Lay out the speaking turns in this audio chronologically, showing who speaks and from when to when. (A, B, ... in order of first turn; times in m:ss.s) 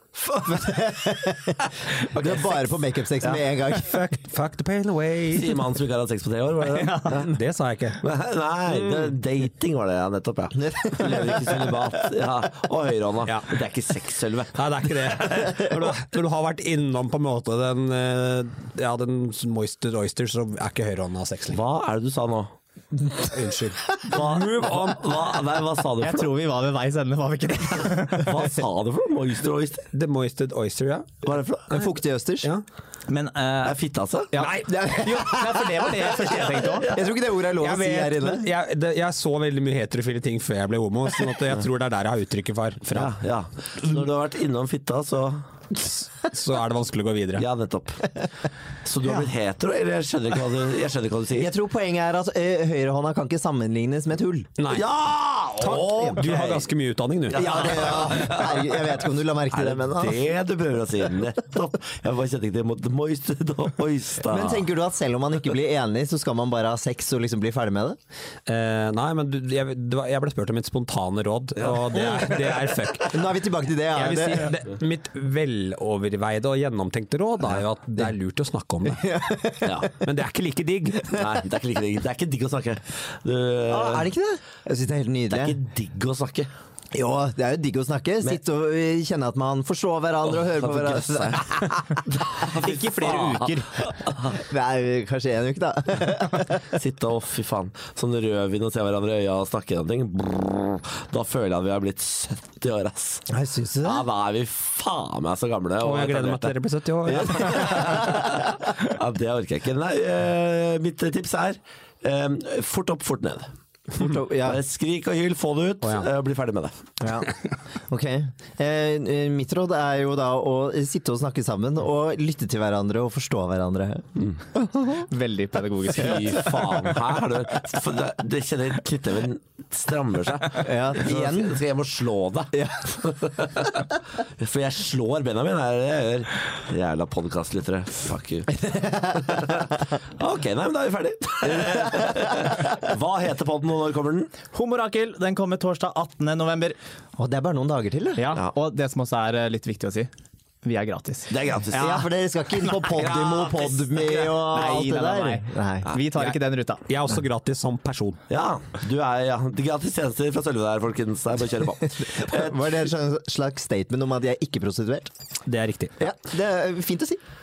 0:00.2-0:01.1 A
0:00.4-0:04.0 B
0:02.1-0:02.6 A
0:03.6-0:05.6 C
0:05.3-0:07.4 A
0:06.6-0:07.2 D
0:07.1-0:08.0 C
0:08.0-0:16.0 A
0:10.6-0:11.8 B
0:13.2-0:13.5 C
0:14.5-0:21.6 C
0:21.5-0:22.5 A
0:23.2-0:25.1 C
0:24.1-0:26.3 A
0:26.0-0:28.5 D
0:27.9-0:29.9 A
0:29.9-0:31.3 C
0:31.2-0:31.9 A
0:31.7-0:32.5 B
0:33.1-0:33.8 D
0:33.6-0:34.4 A
0:34.3-0:37.0 D
0:34.4-0:34.7 C
0:34.6-0:35.8 B
0:36.0-0:37.1 A
0:36.8-0:38.5 B
0:37.5-0:43.1 C
0:42.9-0:45.5 A
0:45.8-0:47.5 C
0:47.4-0:48.1 A
0:48.8-0:51.5 A
0:51.4-0:54.5 B
0:54.6-0:54.9 C
0:54.7-0:56.6 A
0:55.6-0:56.2 B
0:55.7-0:58.1 C
0:57.3-1:04.7 A
0:57.3-1:00.2 B
1:04.2-1:08.0 B
1:08.4-1:13.2 C
1:11.6-1:12.8 A
1:13.0-1:14.5 B
1:13.9-1:19.2 C
1:19.0-1:19.9 B
1:19.6-1:19.9 A
1:19.9-1:21.2 C
1:21.1-1:24.1 A
1:23.6-1:25.6 B
1:25.3-1:26.5 A
1:26.9-1:32.0 B
1:30.2-1:34.4 A
1:32.4-1:33.8 D
1:34.3-1:36.6 B
1:36.7-1:43.2 A
1:43.3-1:44.0 B
1:43.8-1:53.5 A
1:45.8-1:48.0 C
1:47.1-1:48.5 B
1:53.9-1:54.6 B
1:54.0-1:56.8 A
1:57.0-1:57.3 B
1:57.9-2:05.0 B
2:04.9-2:06.9 D
2:05.9-2:24.3 A
2:10.6-2:11.6 B
2:12.5-2:13.0 B
2:18.5-2:19.6 B
2:21.6-2:22.6 B
2:24.5-2:26.8 D
2:27.2-2:28.2 B
2:28.2-2:30.1 D
2:30.6-2:32.0 D
2:31.3-2:32.0 A
2:31.8-2:35.9 B
2:32.9-2:34.4 A
2:34.5-2:36.8 D
2:36.9-2:38.2 C
2:38.3-2:42.9 A
2:42.1-2:45.1 B
2:45.4-2:46.0 C
2:46.0-2:47.2 B